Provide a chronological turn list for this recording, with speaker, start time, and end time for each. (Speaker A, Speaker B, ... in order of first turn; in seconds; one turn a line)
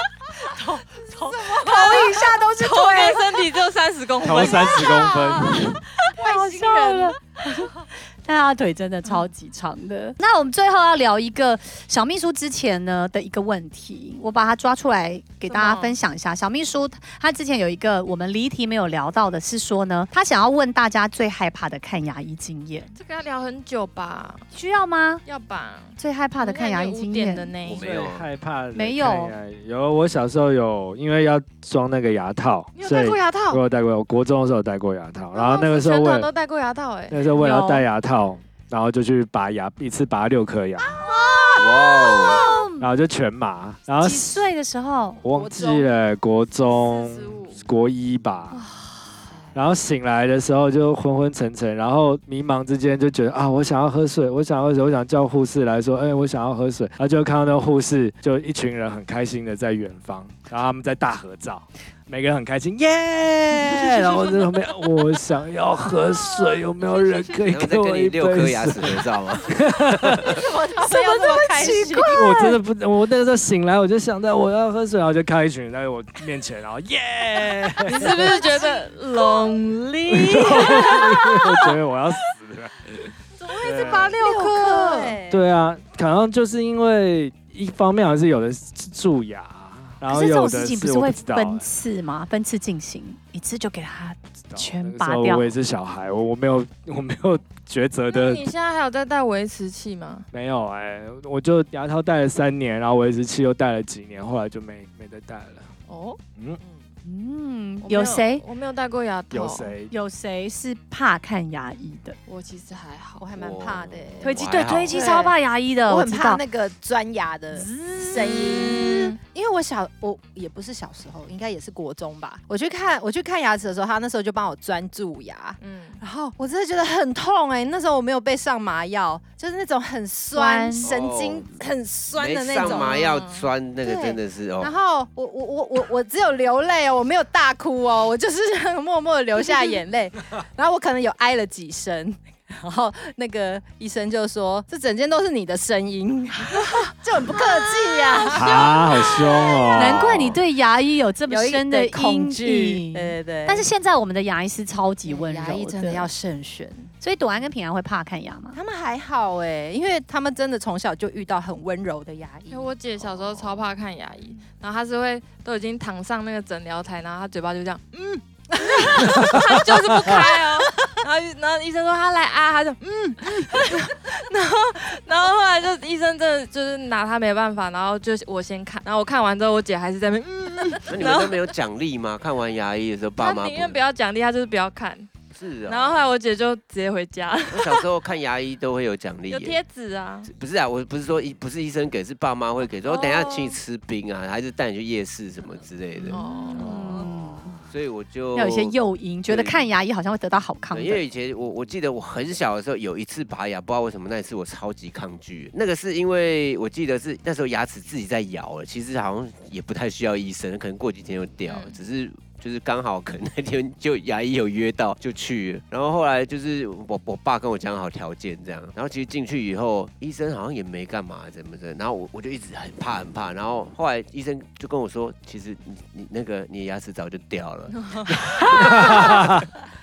Speaker A: 0.4-3.4
Speaker B: 1.1-2.4
Speaker C: 1.6-5.1
Speaker D: 4.2-5.7
Speaker A: 5.3-22.9
Speaker B: 5.5-7.2
Speaker C: 15.4-16.0
Speaker C: 22.9-24.4
Speaker A: 24.5-25.2
Speaker C: 25.2-27.8
Speaker A: 26.0-27.5
Speaker E: 27.6-28.3
Speaker D: 27.8-36.3
Speaker A: 28.7-29.3
Speaker C: 32.7-33.6
Speaker C: 35.3-37.2
Speaker D: 37.1-41.0
Speaker A: 37.4-37.9
Speaker B: 40.9-42.6
Speaker A: 41.0-42.9
Speaker E: 41.6-42.4
Speaker D: 42.8-44.4
Speaker A: 44.0-45.2
Speaker D: 45.2-48.6
Speaker B: 45.3-45.9
Speaker C: 46.6-47.6
Speaker A: 48.5-49.3
Speaker D: 49.5-70.4
Speaker E: 67.4-70.4
Speaker B: 70.3-72.5
Speaker A: 70.8-72.6
Speaker D: 72.1-78.2
Speaker C: 77.8-81.1
Speaker B: 78.3-78.8
Speaker D: 80.1-83.1
Speaker A: 80.2-81.6
Speaker C: 83.4-85.2
Speaker B: 83.5-85.4
Speaker D: 83.6-84.2
Speaker A: 84.2-85.2
Speaker D: 85.3-91.6
Speaker A: 90.1-95.5
Speaker D: 94.5-98.5
Speaker C: 98.1-100.3
Speaker D: 100.3-105.7
Speaker C: 105.9-106.2
Speaker B: 106.6-106.8
Speaker A: 107.0-108.4
Speaker C: 107.8-109.7
Speaker D: 109.3-109.9
Speaker A: 109.9-112.2
Speaker C: 112.3-113.3
Speaker B: 113.2-115.3
Speaker E: 113.3-115.0
Speaker A: 114.2-116.4
Speaker B: 115.9-133.1
Speaker A: 117.5-118.9
Speaker C: 118.1-119.2
Speaker C: 125.6-126.0
Speaker A: 130.3-130.9
Speaker E: 130.8-131.6
Speaker E: 132.2-134.7
Speaker C: 132.6-133.5
Speaker B: 133.8-150.1
Speaker A: 139.4-139.7
Speaker A: 147.3-148.7
Speaker D: 148.3-150.4
Speaker A: 149.7-156.1
Speaker B: 151.3-153.7
Speaker B: 155.1-156.9
Speaker A: 157.0-158.6
Speaker B: 158.5-162.7
Speaker C: 162.5-181.5
Speaker E: 163.2-163.6
Speaker B: 168.6-169.3
Speaker E: 180.9-183.8
Speaker C: 183.2-185.1
Speaker E: 185.3-186.1
Speaker C: 185.7-187.8
Speaker E: 187.5-189.6
Speaker C: 189.3-190.3
Speaker E: 190.3-197.1
Speaker C: 192.8-193.6
Speaker A: 195.9-197.6
Speaker C: 196.1-196.9
Speaker E: 197.7-198.7
Speaker A: 198.3-201.1
Speaker E: 199.3-199.7
Speaker E: 200.7-229.4
Speaker C: 211.5-211.8
Speaker C: 227.8-228.1
Speaker A: 228.3-229.3
Speaker D: 228.9-229.4